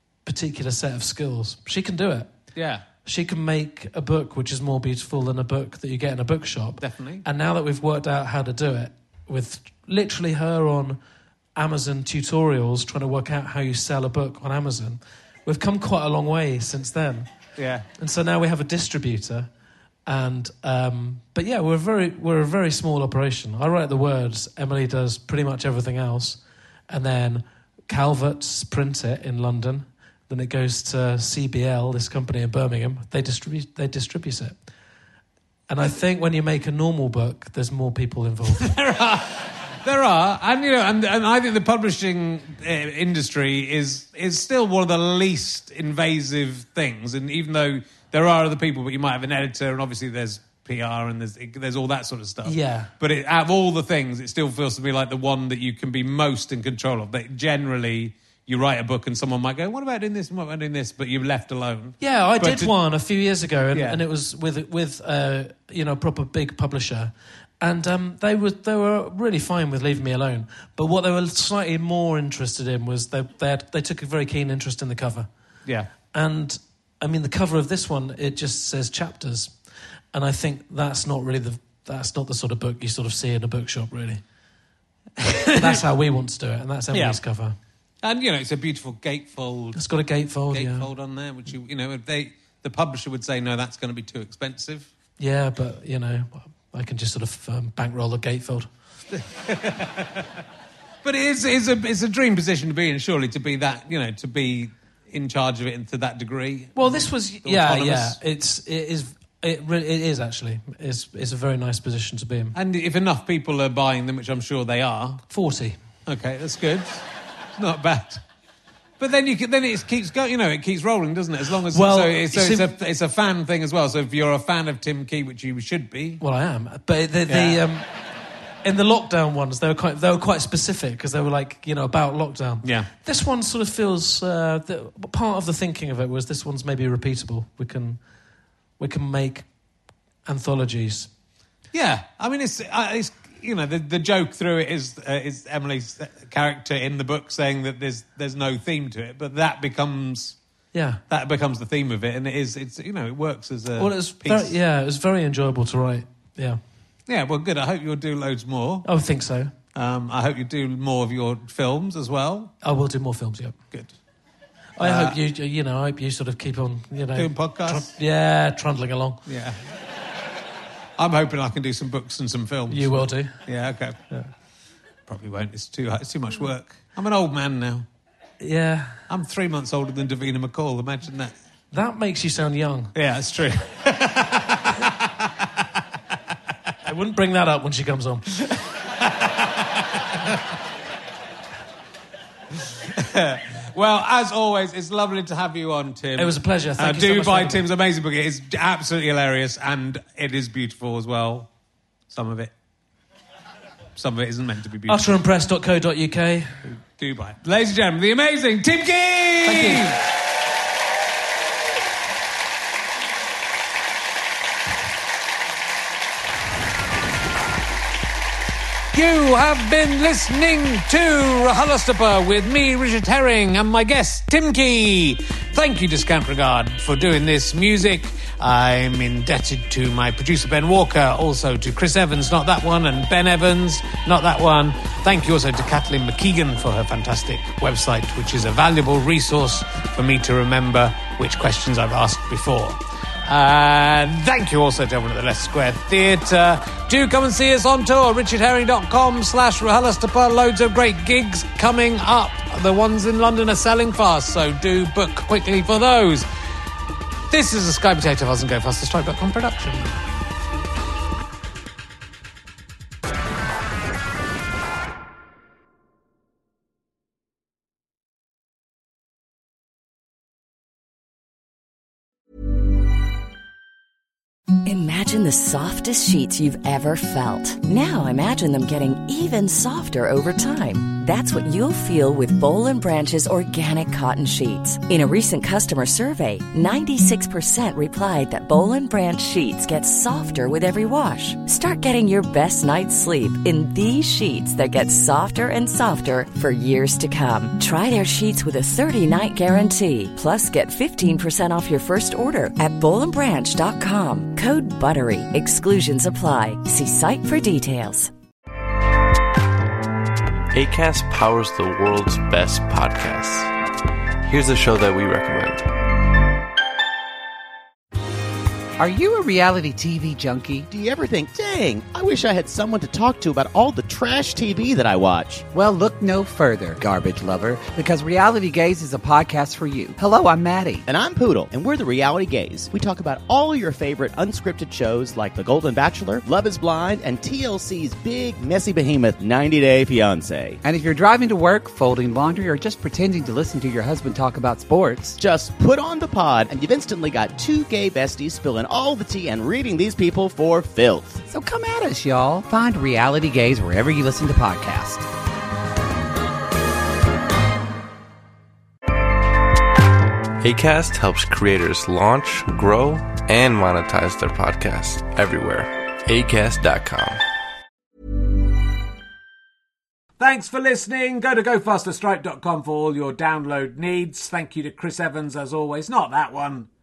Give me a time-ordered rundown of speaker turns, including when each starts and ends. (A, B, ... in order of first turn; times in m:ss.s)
0:00.2-0:02.3 A
0:02.5-0:02.8 B
0:03.0-0:11.0 A
0:06.8-0:07.2 B
0:11.6-0:17.3 A
0:17.6-0:17.9 B
0:18.0-0:19.5 A
0:20.0-0:34.5 A
0:35.7-0:38.7 A
0:38.6-1:02.7 B
0:52.4-0:52.9 A
1:02.0-1:15.3 A
1:03.7-1:04.0 B
1:16.1-1:19.5 A
1:20.1-1:24.2 A
1:25.2-1:25.8 B
1:25.5-1:27.6 A
1:26.9-1:27.2 B
1:28.0-1:29.8 B
1:29.7-1:30.9 A
1:30.5-1:34.9 B
1:35.2-1:38.7 A
1:39.2-1:40.2 B
1:41.0-1:48.2 B
1:46.8-1:52.6 A
1:52.5-1:55.2 B
1:55.3-1:55.8 A
1:56.0-1:57.0 B
1:57.6-1:58.2 B
1:59.0-2:06.2 B
2:01.7-2:02.7 A
2:06.2-2:07.9 A
2:07.3-2:07.6 B
2:08.6-2:18.0 A
2:12.6-2:12.9 B
2:18.8-2:19.4 A
2:20.2-2:21.1 A
2:21.7-2:30.4 B
2:30.7-2:31.0 A
2:31.1-2:34.5 B
2:33.8-2:36.6 A
2:37.1-2:38.8 B
2:38.8-2:39.5 A
2:39.7-2:42.5 B
2:42.6-2:43.6 A
2:44.8-2:49.2 A
2:44.8-2:45.2 B
2:47.1-2:47.9 B
2:49.2-2:49.6 B
2:51.0-2:54.0 B
2:52.7-2:53.4 A
2:55.1-2:57.8 B
2:58.4-2:59.0 A
2:59.1-3:01.3 B
3:01.7-3:02.9 A
3:02.9-3:05.6 B
3:06.8-3:08.3 A
3:08.4-3:10.2 B
3:12.6-3:21.5 B
3:16.2-3:17.6 A
3:22.1-3:22.5 B
3:24.0-3:25.2 B
3:24.9-3:26.6 A
3:26.6-3:30.0 B
3:29.4-3:29.9 A
3:38.9-4:16.3 B
4:17.3-4:19.9 B
4:34.6-5:08.1 C
5:10.5-5:13.5 D
5:14.2-5:15.7 D
5:18.8-5:20.7 E
5:20.7-5:25.4 F
5:25.5-5:30.8 E
5:30.9-5:40.6 F
5:40.6-5:45.2 E
5:45.2-5:51.2 F
5:51.3-5:55.0 E
6:00.4-6:07.2 D
6:10.2-6:16.7 B